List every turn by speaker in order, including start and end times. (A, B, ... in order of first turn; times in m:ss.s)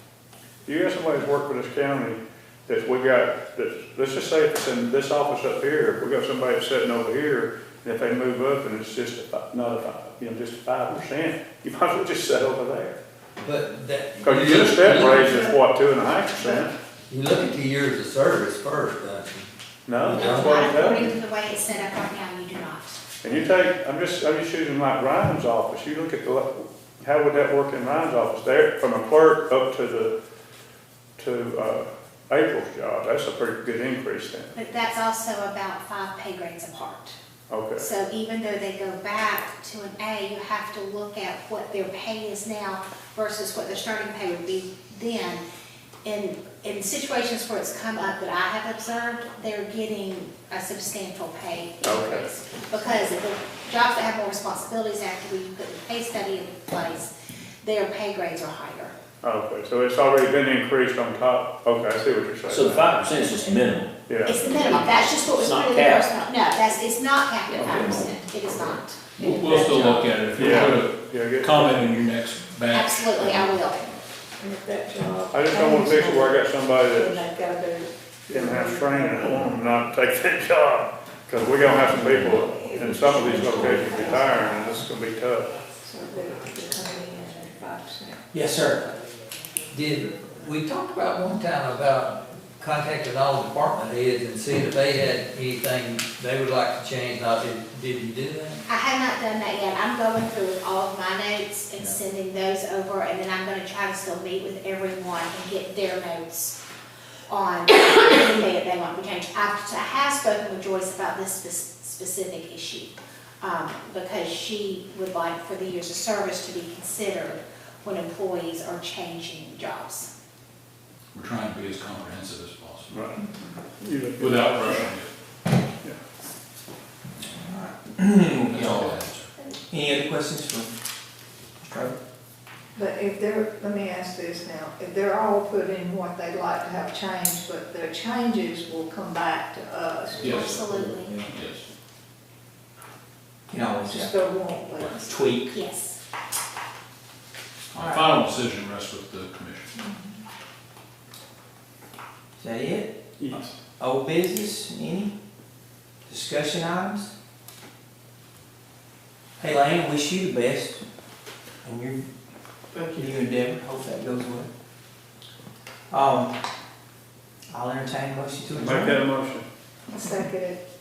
0:00.7-0:13.0 A
0:13.4-0:15.6 B
0:14.2-0:16.7 A
0:17.1-0:21.1 B
0:19.9-0:21.1 A
0:20.2-0:23.0 C
0:23.2-0:30.2 A
0:31.2-0:34.5 A
0:34.5-0:37.2 C
0:37.5-0:37.9 A
0:37.8-0:45.4 C
0:46.0-0:57.1 C
0:51.8-0:52.3 A
0:57.6-0:58.9 C
0:59.2-1:03.0 A
1:02.5-1:06.2 D
1:04.1-1:04.5 A
1:04.3-1:09.7 C
1:07.5-1:10.3 D
1:09.2-1:13.6 E
1:10.3-1:11.6 A
1:12.7-1:13.9 C
1:14.4-1:19.6 F
1:15.3-1:17.2 A
1:18.3-1:25.5 A
1:21.6-1:24.8 F
1:22.0-1:24.0 D
1:25.8-1:29.0 F
1:28.3-1:28.8 G
1:29.7-1:38.6 B
1:38.7-1:46.6 C
1:47.3-2:00.1 C
2:01.1-2:03.0 E
2:02.9-2:03.2 A
2:03.8-2:04.9 A
2:04.2-2:05.1 E
2:07.2-2:08.8 G
2:08.5-2:09.3 D
2:08.5-2:09.2 E
2:09.7-2:10.7 G
2:11.6-2:12.0 G
2:12.8-2:20.6 F
2:20.2-2:21.6 E
2:20.2-2:21.3 C
2:23.5-2:24.1 G
2:23.8-2:25.2 F
2:25.0-2:25.6 G
2:25.5-2:26.0 C
2:27.7-2:29.7 E
2:27.8-2:28.1 F
2:29.8-2:30.1 F
2:32.4-2:33.0 G
2:33.2-2:33.6 A
2:33.8-2:35.1 G
2:36.1-2:37.1 G
2:39.4-2:40.8 G
2:41.6-2:42.1 G
2:42.9-2:44.5 G
2:45.9-2:46.3 G
2:47.5-2:49.0 G
2:48.5-2:49.5 A
2:49.9-2:50.6 F